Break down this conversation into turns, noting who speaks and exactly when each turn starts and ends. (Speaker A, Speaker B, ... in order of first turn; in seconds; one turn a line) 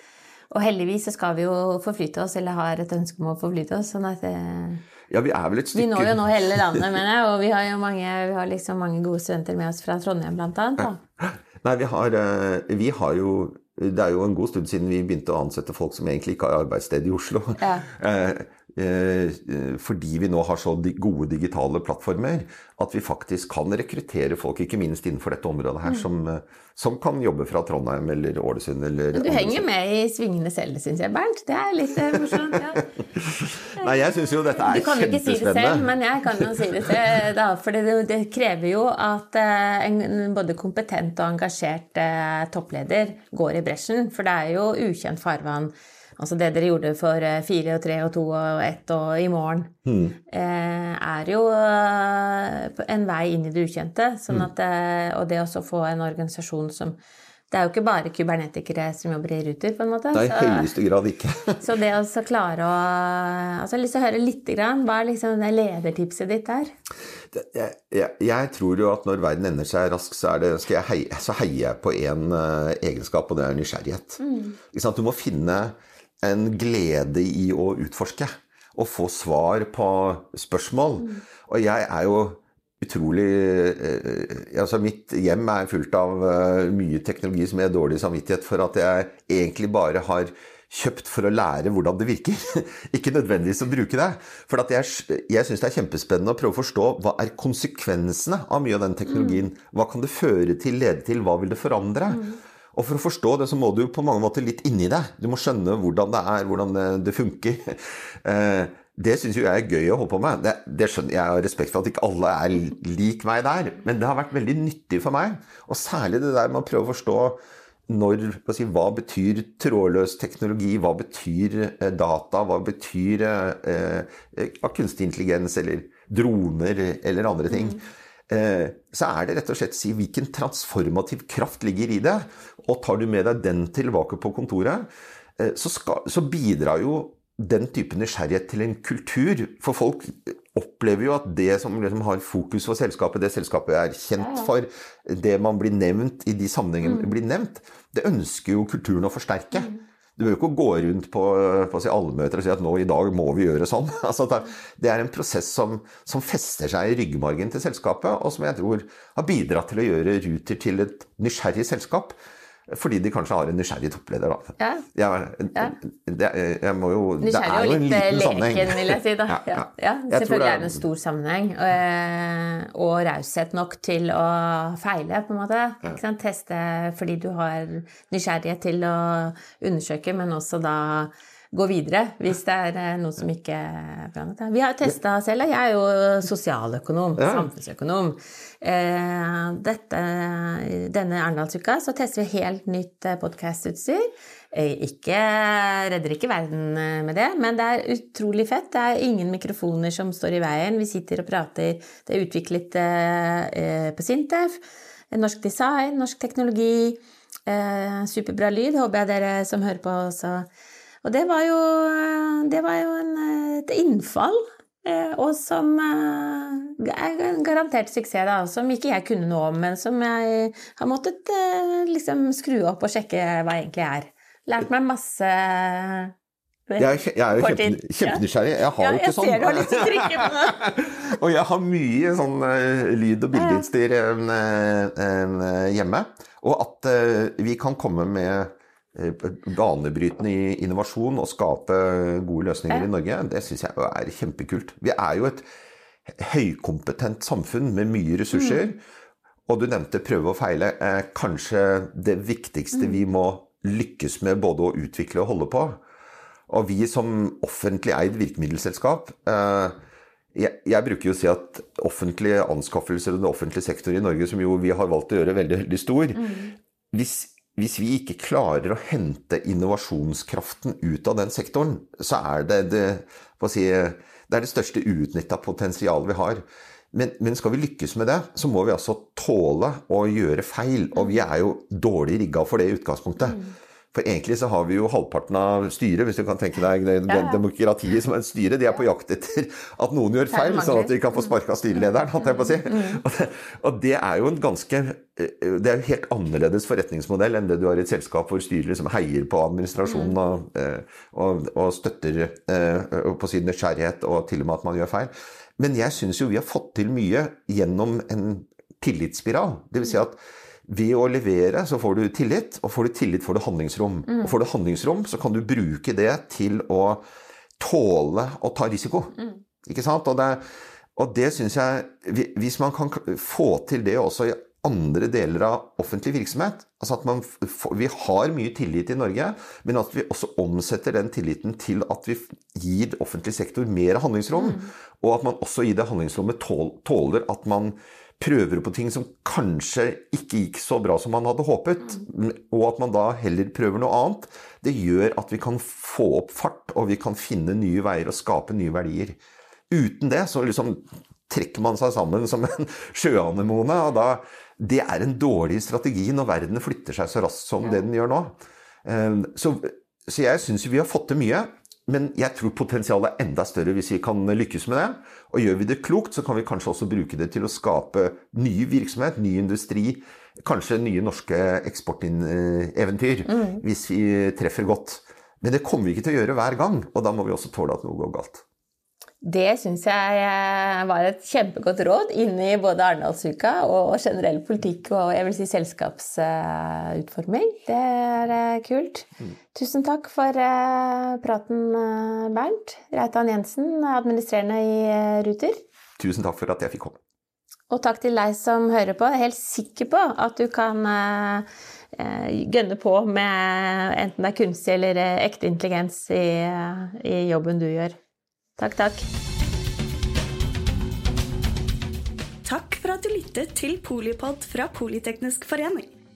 Speaker A: 0.5-4.8
Speaker B: 5.1-7.0
Speaker A: 5.8-11.0
Speaker B: 11.2-29.7
Speaker A: 17.6-17.9
Speaker A: 29.1-32.8
Speaker B: 32.1-36.5
Speaker A: 33.8-49.7
Speaker B: 49.9-50.2
Speaker A: 50.3-57.0
Speaker A: 57.5-60.7
Speaker B: 60.1-61.6
Speaker A: 61.6-66.7
Speaker B: 67.3-134.9
Speaker A: 74.2-74.6
Speaker A: 99.1-99.4
Speaker B: 135.4-162.2
Speaker A: 144.2-144.5
Speaker B: 162.7-170.8
Speaker A: 164.6-164.9
Speaker A: 167.2-210.5
Speaker B: 187.2-187.5
Speaker A: 211.0-226.1
Speaker A: 226.7-228.2
Speaker B: 226.8-245.5
Speaker A: 228.8-230.7
Speaker A: 233.3-233.7
Speaker B: 246.1-248.8
Speaker B: 249.5-255.8
Speaker B: 256.5-259.8
Speaker B: 260.3-283.4
Speaker B: 283.9-317.0
Speaker A: 287.1-287.4
Speaker A: 290.3-291.2
Speaker A: 292.7-293.0
Speaker A: 299.9-300.1
Speaker B: 317.6-320.4
Speaker B: 321.0-349.2
Speaker B: 349.7-378.4
Speaker A: 373.3-373.6
Speaker A: 379.2-395.6
Speaker B: 396.0-397.0
Speaker A: 397.7-408.0
Speaker A: 408.6-409.1
Speaker C: 412.4-415.9